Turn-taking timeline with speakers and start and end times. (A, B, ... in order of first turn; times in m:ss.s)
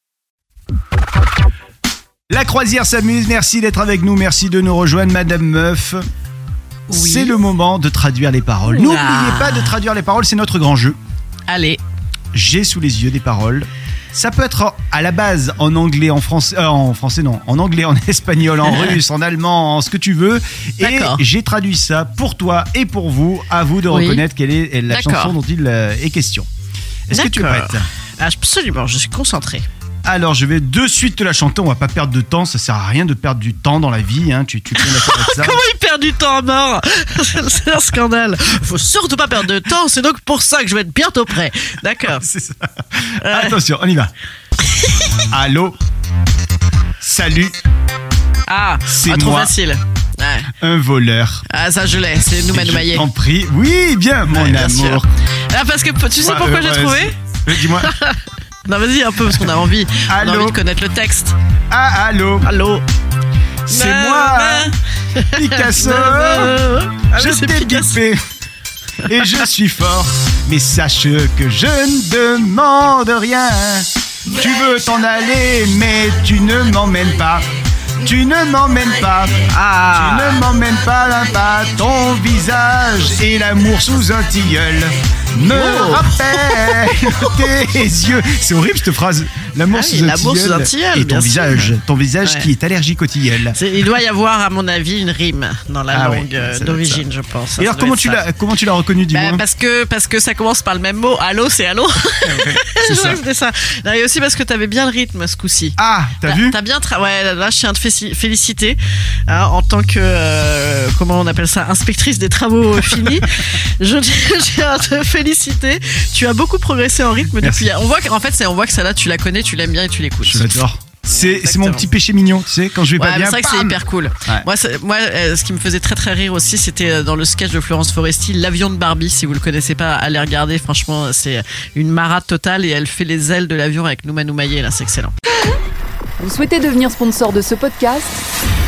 0:02.3-0:06.0 A
0:06.9-0:07.3 B
0:06.9-0:11.0 A
0:08.7-0:09.8 B
0:11.5-0:11.8 B
0:12.3-0:26.5 A
0:18.6-0:19.0 B
0:20.8-0:21.2 B
0:23.9-0:24.2 B
0:24.9-0:25.3 B
0:27.1-0:27.9 A
0:27.1-0:29.6 B
0:30.0-0:35.6 A
0:34.7-0:42.2 B
0:42.0-0:44.1 A
0:43.2-0:43.6 B
0:45.3-0:45.8 A
0:47.0-0:47.5 A
0:48.5-0:50.5 B
0:48.9-0:49.5 A
0:50.6-0:51.4 A
0:51.5-0:53.1 B
0:52.5-0:55.1 A
0:54.3-1:01.3 B
0:56.1-0:57.9 A
1:00.1-1:00.6 A
1:01.7-1:02.5 A
1:02.4-1:02.8 B
1:03.7-1:04.7 A
1:03.7-1:08.0 B
1:05.3-1:08.2 A
1:09.0-1:17.4 A
1:09.0-1:09.4 B
1:18.0-1:19.4 A
1:19.5-1:20.4 B
1:19.9-1:33.6 A
1:25.4-1:27.3 B
1:29.7-1:32.5 B
1:33.5-1:38.2 B
1:35.9-1:37.0 A
1:37.6-1:39.4 A
1:39.1-2:01.9 B
1:42.2-1:43.2 A
1:45.8-1:46.6 A
1:57.4-1:57.7 A
2:00.2-2:04.5 A
2:02.9-2:15.1 B
2:16.2-2:18.2 C